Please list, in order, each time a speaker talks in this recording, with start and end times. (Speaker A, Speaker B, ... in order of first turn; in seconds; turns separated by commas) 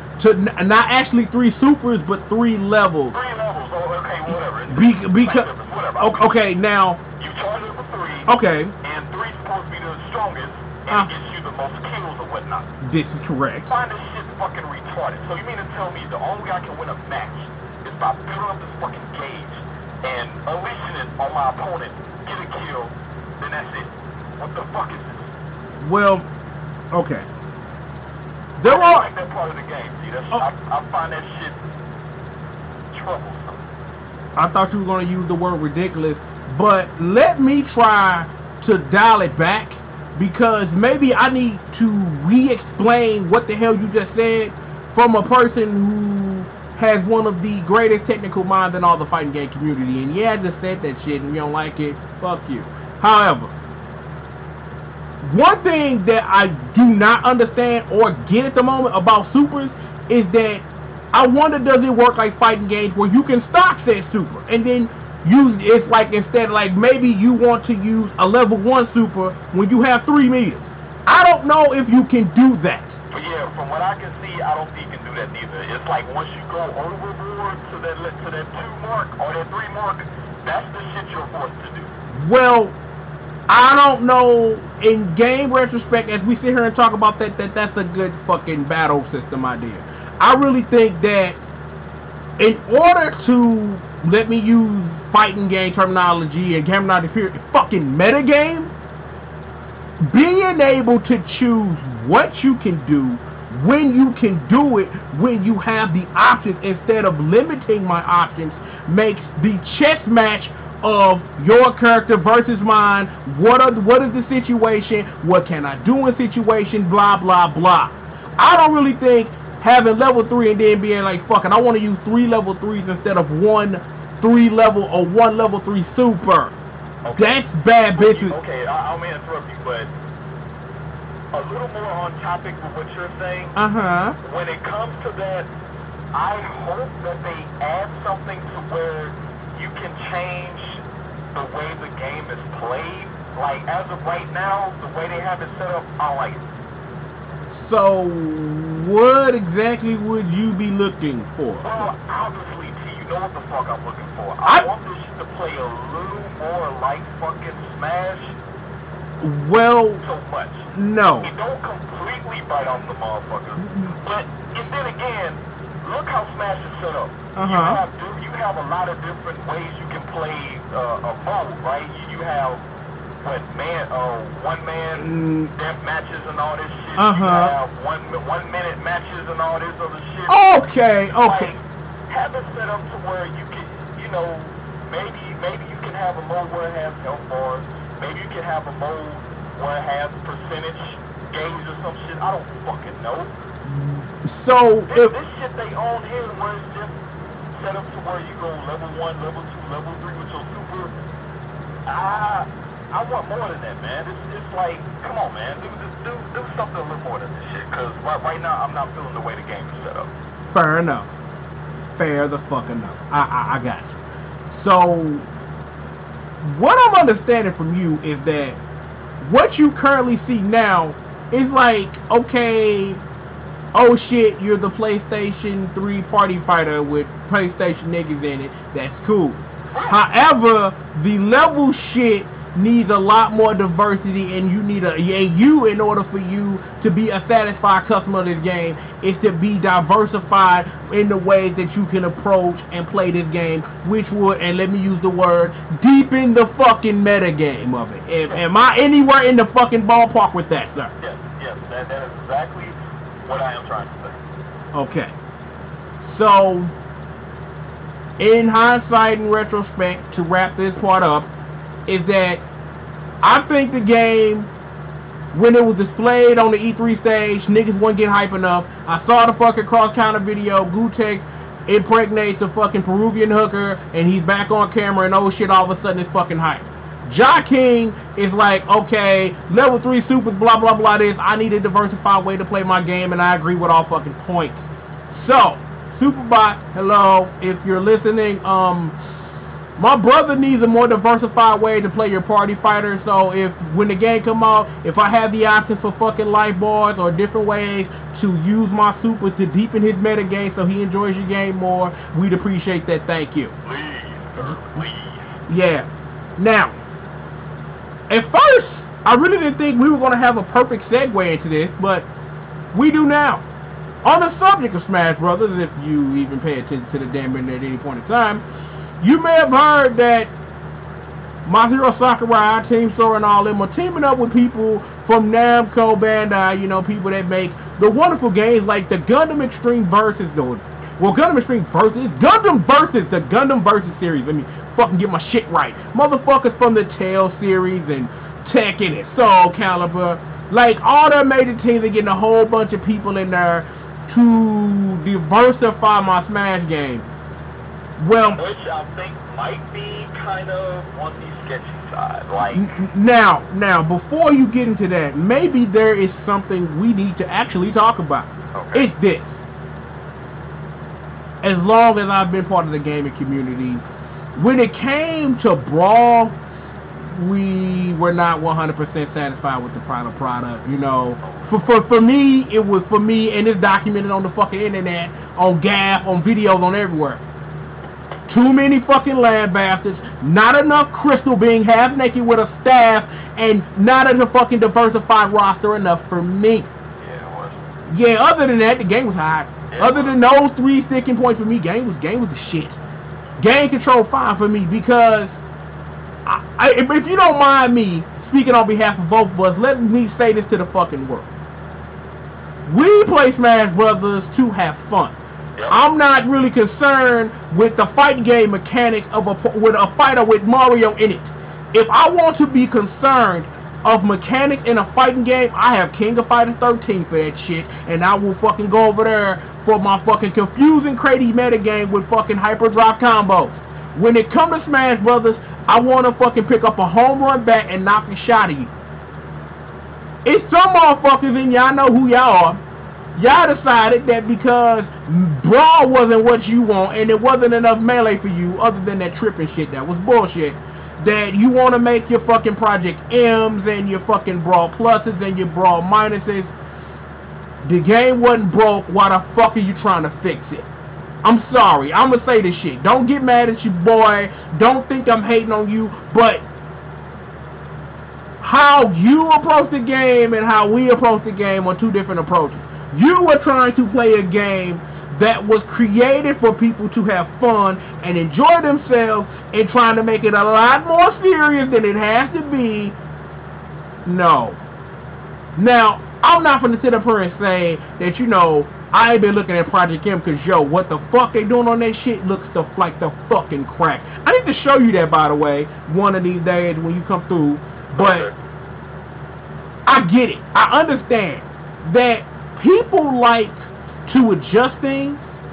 Speaker A: 0.2-3.1, Speaker B: 3.1-6.4, Speaker A: 4.7-7.0, Speaker B: 7.2-8.3, Speaker A: 8.3-8.7, Speaker B: 8.8-12.7, Speaker A: 12.8-13.7, Speaker B: 13.7-25.3, Speaker A: 25.8-26.2, Speaker A: 26.9-27.2, Speaker A: 28.6-29.1, Speaker B: 28.6-31.6, Speaker B: 32.9-33.6, Speaker A: 34.4-53.5, Speaker A: 55.2-72.9, Speaker B: 73.1-81.9, Speaker A: 82.1-82.8, Speaker A: 83.5-91.4, Speaker A: 92.4-98.7, Speaker A: 100.0-126.5, Speaker B: 127.0-127.4, Speaker A: 127.1-128.3, Speaker B: 127.9-129.9, Speaker B: 131.3-133.6, Speaker A: 133.6-134.2, Speaker B: 134.2-135.5, Speaker B: 136.1-140.8, Speaker B: 141.3-146.4, Speaker A: 147.5-151.9, Speaker B: 151.6-158.3, Speaker A: 159.2-160.0, Speaker B: 160.0-160.7, Speaker A: 160.7-161.3, Speaker B: 161.2-172.6, Speaker A: 163.6-163.9, Speaker A: 167.3-167.8, Speaker B: 173.2-180.4, Speaker A: 175.0-175.5, Speaker A: 177.0-177.5, Speaker A: 180.3-181.5, Speaker B: 181.1-193.3, Speaker A: 193.7-195.1, Speaker B: 194.9-196.9, Speaker B: 197.5-200.9, Speaker B: 201.8-210.1, Speaker A: 210.5-211.1, Speaker A: 212.0-214.0, Speaker A: 214.5-215.2, Speaker A: 216.4-218.6, Speaker A: 219.2-223.0, Speaker A: 223.7-250.9, Speaker B: 229.7-230.0, Speaker B: 251.0-254.2, Speaker A: 254.7-255.1, Speaker A: 256.1-256.7, Speaker A: 258.2-261.3, Speaker A: 261.9-262.4, Speaker A: 263.2-264.5, Speaker A: 265.3-284.6, Speaker A: 285.1-288.9, Speaker A: 289.8-303.5, Speaker B: 303.6-305.4, Speaker A: 304.4-304.8, Speaker A: 305.5-306.7, Speaker A: 308.1-312.1, Speaker A: 312.7-313.4, Speaker A: 314.0-318.4, Speaker A: 319.0-320.3, Speaker A: 321.4-347.1, Speaker A: 348.0-348.4, Speaker B: 348.3-352.7, Speaker A: 352.5-359.3, Speaker B: 358.5-358.9, Speaker A: 361.4-363.8, Speaker A: 364.3-366.4, Speaker A: 367.1-377.2, Speaker B: 371.2-371.7, Speaker A: 378.3-386.7, Speaker B: 387.0-387.6, Speaker A: 387.9-392.8, Speaker B: 389.7-390.2, Speaker A: 393.4-395.4, Speaker A: 396.2-401.3, Speaker A: 402.7-405.1, Speaker A: 405.7-428.7, Speaker A: 430.2-432.6, Speaker A: 433.1-446.5, Speaker A: 447.6-450.7, Speaker A: 451.2-456.4, Speaker A: 458.4-472.9, Speaker A: 474.0-474.6, Speaker A: 475.6-488.3, Speaker B: 487.9-488.3, Speaker A: 489.9-495.2